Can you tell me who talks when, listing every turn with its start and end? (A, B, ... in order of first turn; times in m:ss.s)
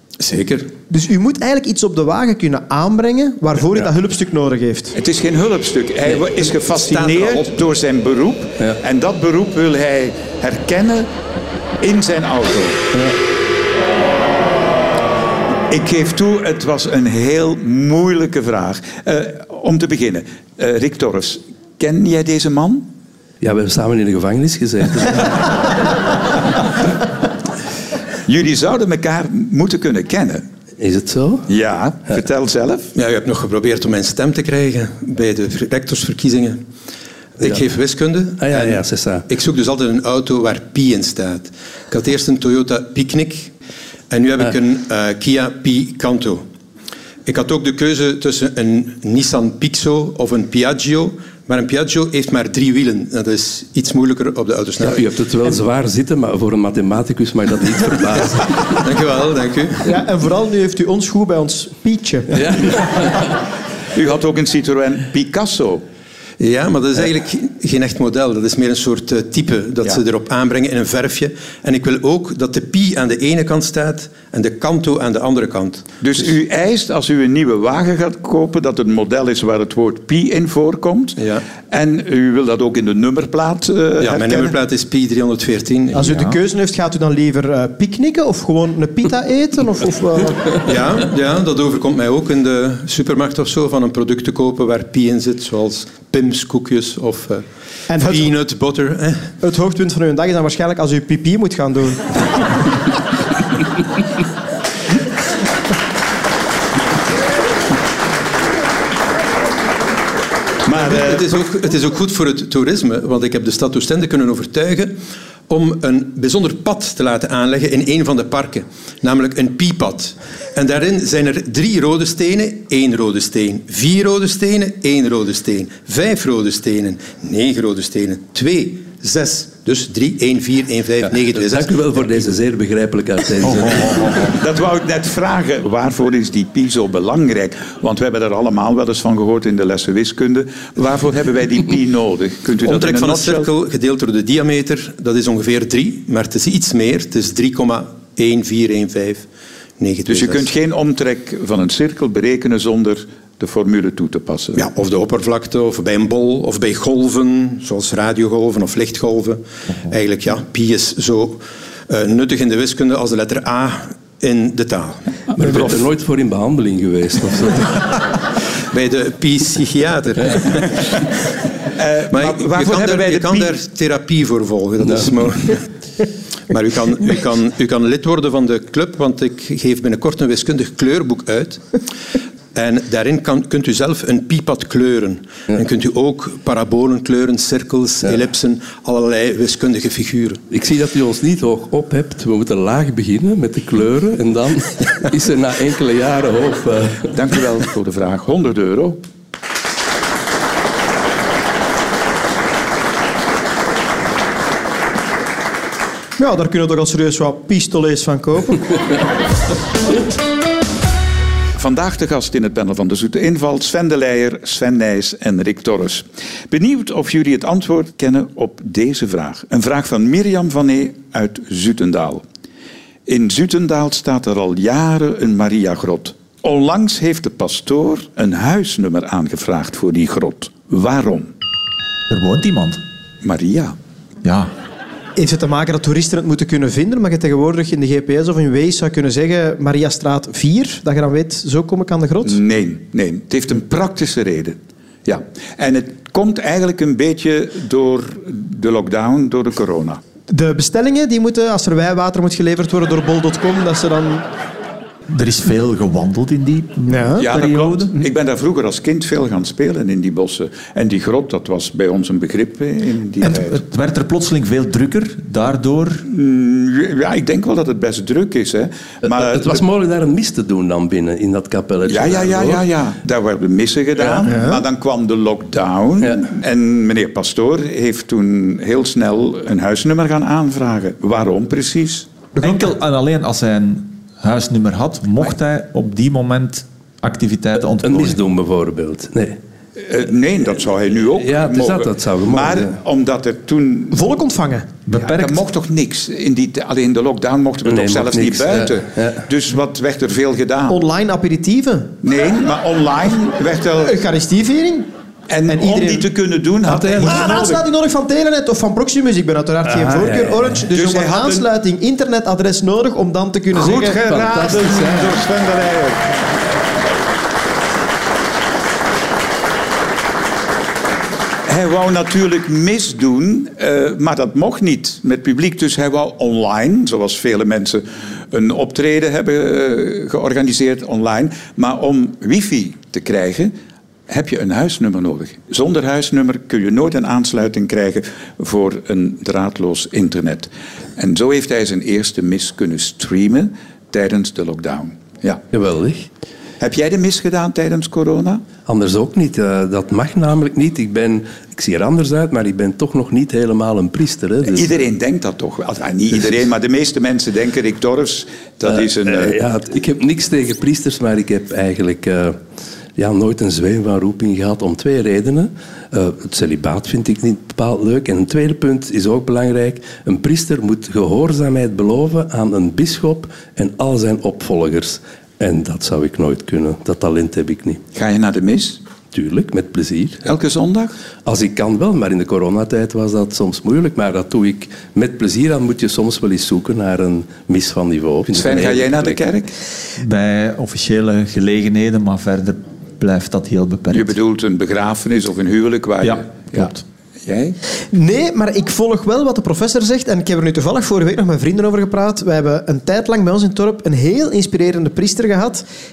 0:00.2-0:00.7 A
0:00.9-0:05.0 B
0:05.0-0:11.1 C
0:06.6-0:07.5 A
0:11.8-0:12.8 C
0:15.7-0:22.9 C
0:23.4-0:25.8 D
0:28.2-0:30.4 C
0:30.8-0:31.5 D
0:31.5-0:32.9 C
0:33.0-0:36.6 A
0:37.4-0:43.5 A
0:38.4-0:39.3 D
0:44.1-0:46.4 A
0:47.3-0:55.1 A
0:54.8-0:58.8 D
0:58.8-0:59.9 A
0:59.8-1:02.3 B
1:02.4-1:03.2 D
1:03.9-1:05.8 C
1:06.4-1:15.9 A
1:16.0-1:24.6 C
1:21.2-1:21.4 A
1:24.0-1:26.1 A
1:25.9-1:30.6 B
1:26.1-1:26.4 E
1:30.6-1:37.4 A
1:37.9-1:38.3 B
1:38.0-1:39.3 A
1:39.4-1:42.1 B
1:50.7-1:51.4 C
1:50.7-2:12.3 A
2:11.1-2:14.3 D
2:13.4-2:14.3 E
2:14.3-2:23.5 C
2:22.6-2:29.3 A
2:29.8-2:30.5 A
2:30.1-2:34.7 C
2:34.6-2:45.0 A
2:45.4-2:47.9 D
2:48.7-2:50.8 A
2:51.8-2:53.6 C
2:52.1-2:55.6 A
2:56.5-3:01.6 A
3:02.5-3:10.4 A
3:10.5-3:17.1 D
3:17.1-3:19.0 C
3:26.2-3:28.7 B
3:31.6-3:42.2 C
3:43.1-3:51.3 C
3:52.1-3:52.8 E
3:53.2-3:53.8 C
3:54.2-3:54.5 E
3:55.2-4:02.4 B
4:02.2-4:10.0 C
4:10.3-4:14.3 B
4:15.1-4:18.0 E
4:16.9-4:17.3 B
4:17.2-4:23.6 C
4:23.2-4:26.0 E
4:26.1-4:29.6 C
4:29.1-4:32.7 D
4:31.9-4:42.1 C
4:34.0-4:34.3 D
4:34.3-4:34.6 B
4:42.4-4:48.2 E
4:47.8-4:49.4 D
4:49.8-4:54.0 C
4:51.2-4:52.8 D
4:53.9-4:54.7 B
4:54.9-4:55.4 E
4:55.0-5:00.8 C
4:57.6-4:59.2 D
5:00.7-5:01.9 B
5:02.0-5:04.0 C
5:03.8-5:04.9 B
5:05.3-5:07.6 C
5:05.5-5:06.1 B
5:06.7-5:14.0 B
5:09.7-5:10.6 D
5:10.7-5:11.5 C
5:13.5-5:16.1 C
5:14.0-5:15.2 D
5:21.5-5:33.5 C
5:34.1-5:45.4 C
5:45.5-5:46.1 D
5:46.6-5:48.4 C
5:48.7-5:54.8 D
5:54.5-5:59.4 C
5:58.7-6:02.4 D
6:03.0-6:17.8 D
6:18.0-6:18.8 C
6:19.1-6:20.3 D
6:20.2-6:20.9 C
6:21.2-6:29.2 D
6:28.3-6:29.5 C
6:30.0-6:34.1 E
6:33.9-6:36.7 C
6:36.0-6:36.8 E
6:37.2-6:37.6 C
6:37.9-6:45.6 B